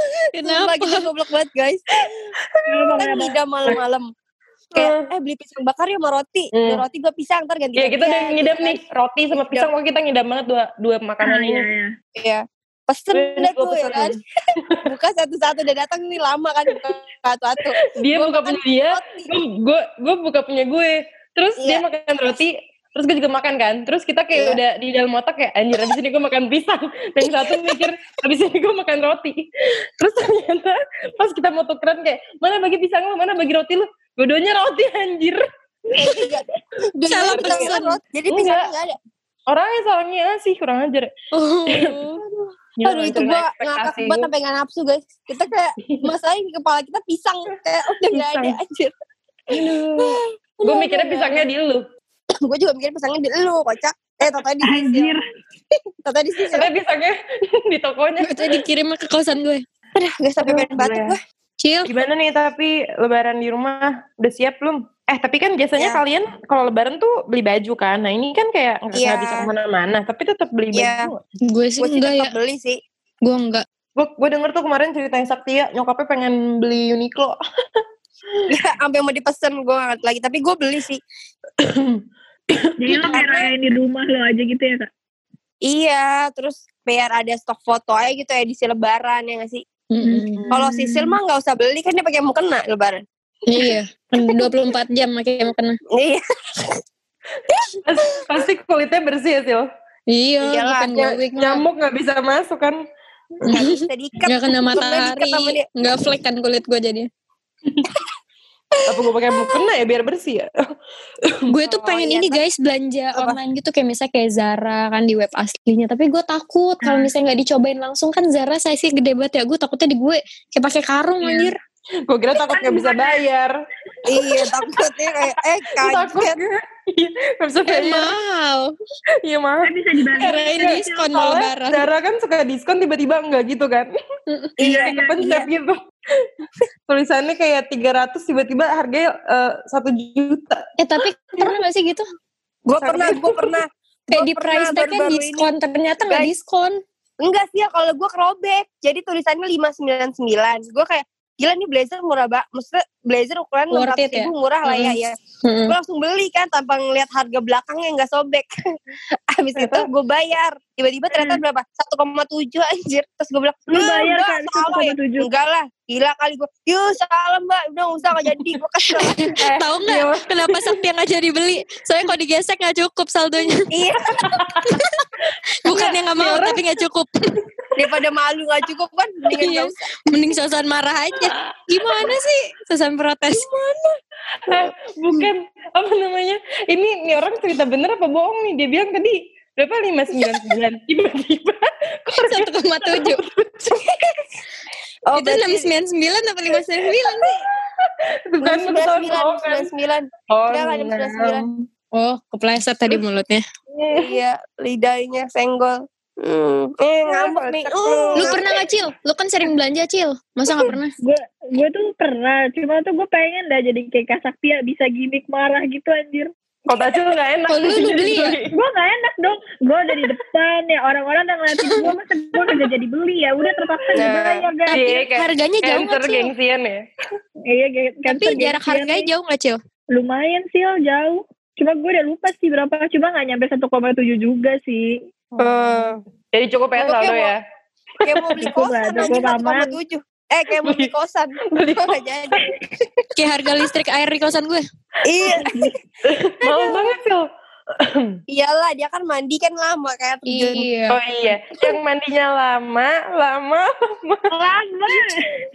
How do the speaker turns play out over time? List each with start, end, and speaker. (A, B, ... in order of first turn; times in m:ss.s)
0:00.4-0:01.1 A
0:00.4-0:02.1 B
0:02.5-0:03.1 C
0:02.7-0:03.3 D
0:03.0-0:04.1 B
0:04.7-0:05.1 C
0:04.7-0:08.8 B
0:06.5-0:06.8 C
0:07.8-0:11.7 C
0:09.3-0:09.7 B
0:11.2-0:11.9 D
0:12.2-0:14.2 B
0:13.1-0:14.2 C
0:14.8-0:19.3 B
0:18.0-0:29.4 C
0:24.4-0:24.6 B
0:30.0-0:35.4 C
0:36.0-0:36.3 D
0:36.0-0:39.0 B
0:37.1-0:38.0 A
0:37.2-0:37.7 C
0:38.3-0:38.7 C
0:39.5-0:41.1 C
0:41.3-0:42.2 A
0:41.7-0:42.0 C
0:42.2-0:48.9 B
0:42.8-0:44.3 C
0:45.8-0:46.1 C
0:48.1-0:48.6 C
0:49.5-0:51.9 C
0:50.0-0:51.5 B
0:52.4-0:55.1 B
0:54.6-0:55.2 D
0:56.0-0:56.7 B
0:56.5-0:58.6 C
0:58.2-0:59.6 A
1:00.0-1:01.2 B
1:00.5-1:01.1 D
1:01.6-1:01.9 A
1:01.9-1:11.2 C
1:08.9-1:09.5 B
1:10.7-1:11.1 B
1:11.5-1:12.3 A
1:11.8-1:12.8 B
1:13.2-1:13.6 A
1:14.0-1:17.4 C
1:18.5-1:21.0 B
1:21.6-1:22.0 C
1:22.6-1:23.2 C
1:22.8-1:24.9 D
1:23.1-1:23.5 B
1:25.7-1:29.6 B
1:29.9-1:31.1 A
1:30.5-1:33.0 B
1:33.5-1:35.8 A
1:36.0-1:36.8 B
1:37.5-1:37.8 B
1:37.8-1:39.7 C
1:40.1-1:41.6 A
1:40.4-1:41.2 B
1:41.4-1:42.8 C
1:43.5-1:47.1 A
1:43.5-1:45.7 B
1:48.9-1:50.5 C
1:51.3-1:51.8 C
1:51.5-2:01.6 A
1:51.8-1:52.4 B
1:53.1-1:53.4 B
2:02.1-2:03.5 C
2:02.5-2:03.2 D
2:04.1-2:06.4 B
2:05.8-2:08.1 C
2:07.7-2:08.7 A
2:09.2-2:13.9 C
2:09.6-2:11.1 D
2:10.2-2:11.8 A
2:14.3-2:14.6 A
2:14.6-2:15.5 B
2:14.6-2:16.2 C
2:14.7-2:15.2 D
2:16.9-2:20.6 C
2:20.8-2:22.0 A
2:22.7-2:25.5 B
2:22.8-2:23.6 C
2:24.1-2:26.8 A
2:26.1-2:26.3 B
2:27.2-2:35.1 B
2:33.7-2:35.8 A
2:35.7-2:38.5 B
2:39.3-2:49.3 B
2:39.6-2:39.9 C
2:43.7-2:45.3 D
2:48.9-2:53.7 A
2:49.8-2:50.3 C
2:53.7-2:54.5 B
2:54.2-2:54.8 C
2:54.6-2:55.0 A
2:55.6-2:57.3 A
2:55.7-2:56.7 C
2:57.8-2:59.8 B
2:59.3-3:03.4 A
3:01.3-3:02.1 C
3:03.3-3:04.0 C
3:04.5-3:14.0 C
3:12.1-3:13.2 A
3:15.1-3:15.7 B
3:15.2-3:17.4 A
3:17.0-3:19.7 C
3:18.4-3:21.4 B
3:20.3-3:21.4 C
3:21.5-3:23.4 A
3:23.7-3:24.2 C
3:23.9-3:28.4 B
3:27.1-3:28.4 C
3:28.2-3:30.9 A
3:31.0-3:36.3 D
3:36.7-3:38.5 C
3:37.5-3:38.4 A
3:38.5-3:44.8 D
3:41.6-3:41.9 A
3:44.0-3:44.5 B
3:44.7-3:46.3 A
3:44.7-3:46.8 C
3:47.5-3:49.1 D
3:48.1-3:49.6 A
3:49.9-3:55.0 D
3:55.3-3:57.4 C
3:55.4-3:56.0 B
3:56.8-3:57.3 B
3:58.0-3:58.5 C
3:58.0-4:02.4 B
3:58.4-3:59.8 D
4:00.6-4:00.9 C
4:01.5-4:02.4 C
4:03.2-4:04.6 A
4:05.0-4:05.7 B
4:06.0-4:07.2 C
4:07.8-4:08.1 C
4:08.3-4:10.7 B
4:10.3-4:11.0 A
4:10.9-4:14.2 C
4:14.3-4:15.2 D